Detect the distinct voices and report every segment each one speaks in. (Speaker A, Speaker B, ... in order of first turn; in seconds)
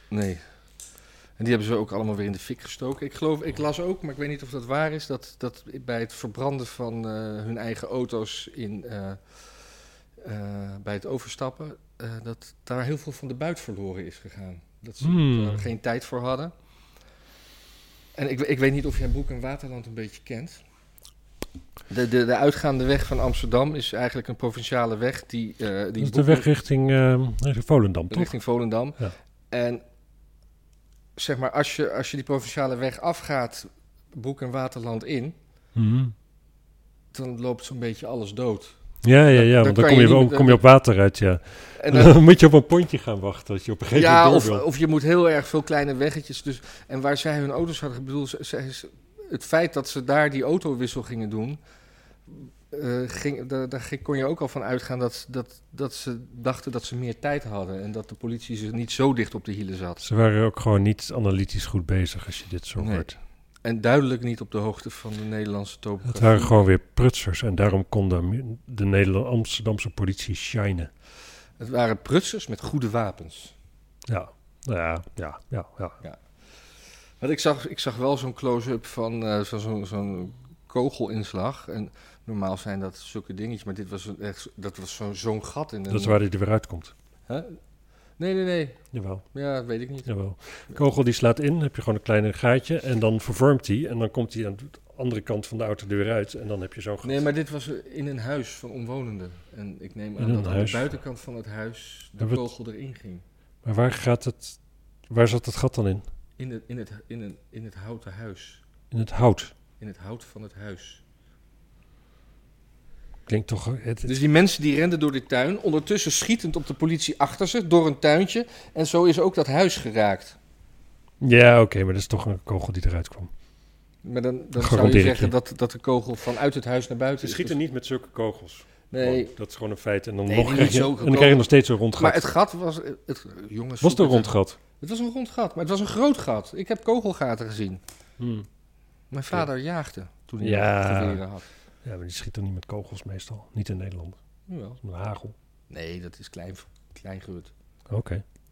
Speaker A: 0.1-0.4, 1.4-9.5, 10.2-16.5, 18.1-20.6, 21.9-26.5, 28.1-29.0, 29.5-29.8, 31.2-35.4, 37.1-38.8, 39.3-40.6, 41.8-42.2, 43.9-51.6, 52.3-60.0, 62.8-63.1, 63.6-66.6, 71.6-73.5, 77.2-86.2, 87.3-87.6, 88.2-88.8, 89.3-90.1, 97.0-103.2, 106.4-108.6, 109.8-111.0, 114.0-120.4, 124.0-127.6, 128.9-129.3, 130.3-137.8, 139.1-141.5, 144.5-144.8, 145.7-147.5
Speaker B: 15.0-15.7, 26.0-28.3, 35.8-36.1, 39.0-44.6, 60.0-63.2, 66.1-70.9, 74.1-76.0, 85.9-86.9, 88.9-89.3, 90.0-97.2, 100.2-100.9, 103.7-104.6, 105.1-106.1, 108.9-109.5, 113.3-114.2, 121.2-123.3, 124.6-125.3, 127.2-132.3, 133.8-134.6, 138.2-138.5, 140.4-141.2, 141.8-144.2, 144.8-145.3, 147.9-148.2